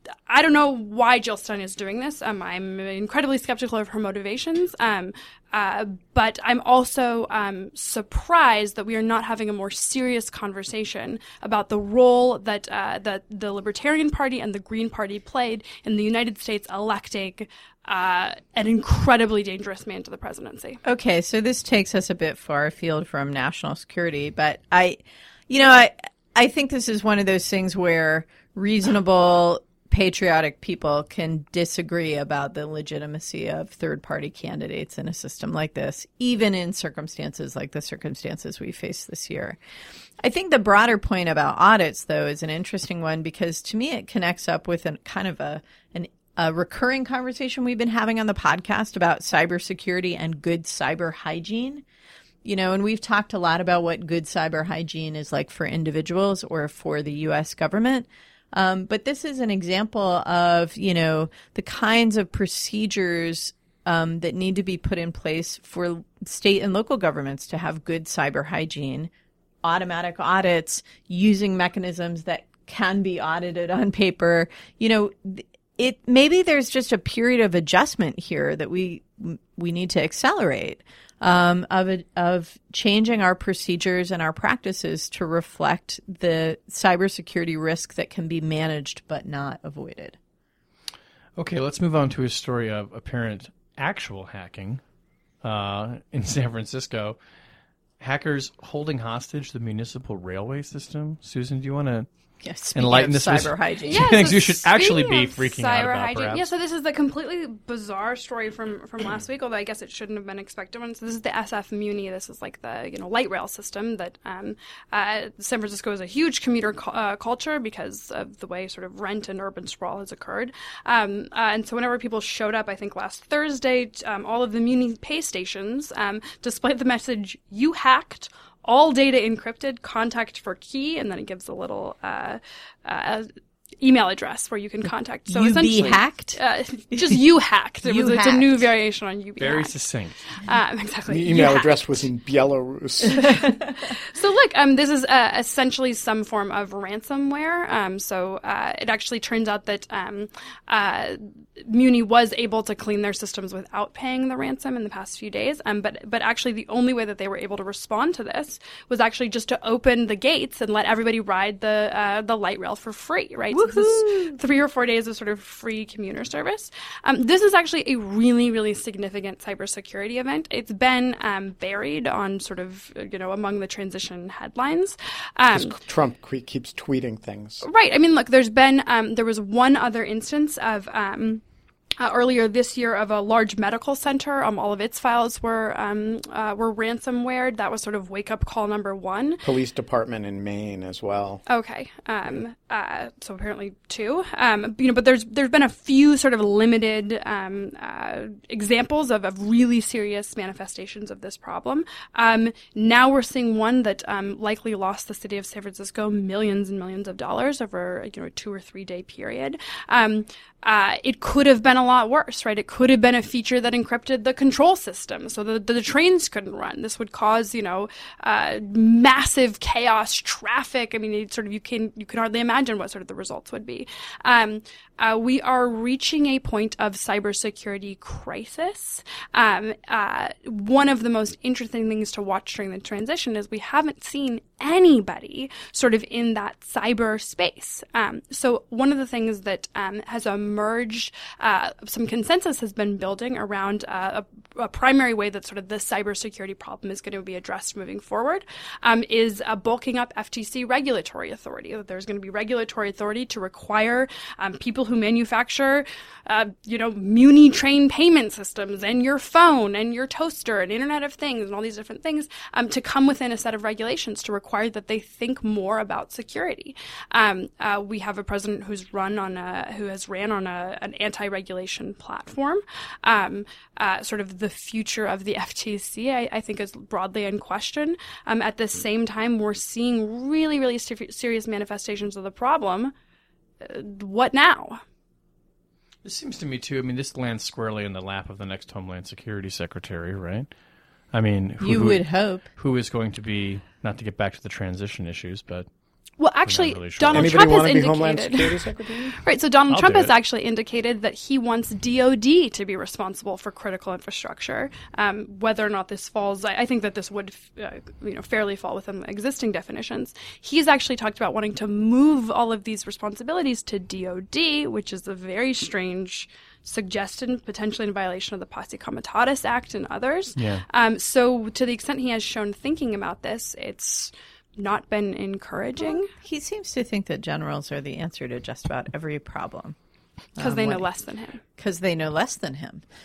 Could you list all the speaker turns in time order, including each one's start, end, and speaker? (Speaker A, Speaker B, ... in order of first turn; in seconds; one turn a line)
Speaker A: 0.3-20.8
Speaker B: 20.8-39.6
Speaker B: 40.2-51.8
Speaker B: 52.4-69.1
Speaker B: 69.6-90.2
Speaker C: 91.4-94.8
Speaker C: 95.4-97.2
Speaker C: 98.0-102.1
Speaker B: 102.4-104.1
Speaker C: 102.7-106.5
Speaker A: 103.9-133.3
Speaker A: 133.8-139.8
Speaker B: 135.3-136.4
Speaker B: 136.9-137.2
Speaker B: 137.8-138.6
Speaker C: 139.4-140.2
Speaker A: 140.4-142.1
Speaker D: 141.1-143.4
Speaker B: 143.1-143.7
Speaker A: 144.0-175.7
Speaker B: 163.5-164.4
Speaker D: 175.5-177.6
Speaker A: 177.6-181.4
Speaker A: 182.0-189.4
Speaker D: 189.4-191.4
Speaker A: 191.5-282.9
Speaker A: 283.6-284.8
Speaker C: 286.0-290.5
Speaker C: 291.1-295.7
Speaker B: 291.6-292.5
Speaker A: 296.2-298.7
Speaker C: 296.4-297.5
Speaker D: 297.1-299.2
Speaker A: 299.2-326.1
Speaker C: 299.7-300.1
Speaker C: 320.4-320.6
Speaker B: 325.8-329.8
Speaker B: 330.4-330.9
Speaker A: 330.4-331.4
Speaker B: 331.6-332.8